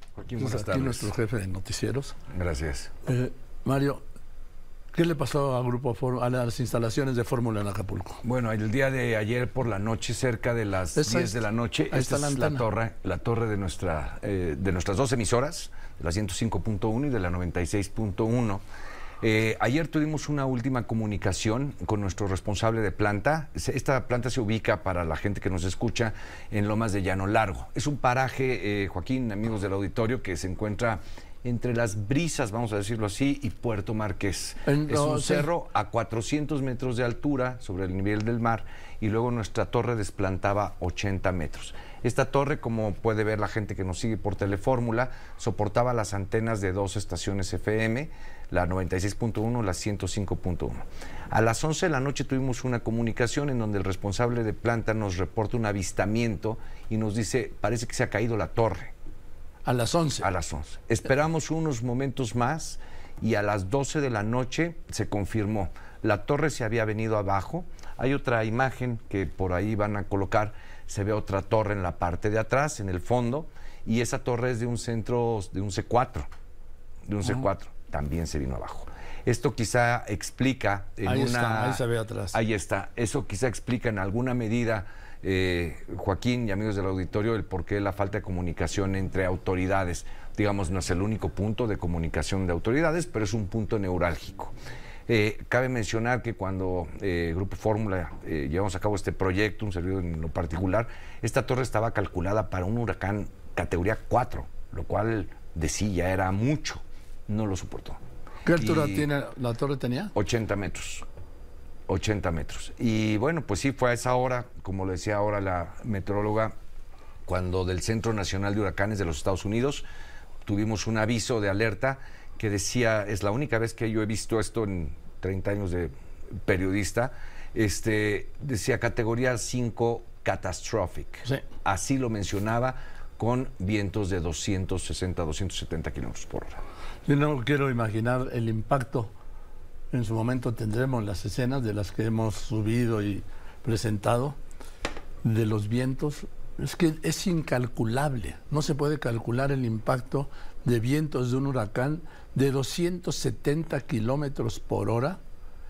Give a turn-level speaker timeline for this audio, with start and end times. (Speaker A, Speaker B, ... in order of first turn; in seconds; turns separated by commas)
Speaker A: 0.1-1.1, Speaker B: 0.4-2.1, Speaker A: 2.3-2.9, Speaker B: 3.0-4.0, Speaker B: 4.9-8.2, Speaker A: 8.2-18.6, Speaker B: 10.9-12.7, Speaker A: 19.2-58.9, Speaker B: 34.6-35.5, Speaker B: 59.6-60.3, Speaker A: 60.2-76.3, Speaker A: 77.1-81.8, Speaker B: 81.0-82.4, Speaker A: 82.3-94.5, Speaker A: 95.1-108.0, Speaker B: 108.4-110.1, Speaker A: 108.5-109.1, Speaker A: 110.1-111.0, Speaker A: 111.9-116.5, Speaker A: 117.2-119.8, Speaker A: 120.5-125.9, Speaker A: 126.4-136.6, Speaker B: 137.1-139.1, Speaker B: 139.9-144.4, Speaker B: 145.2-155.2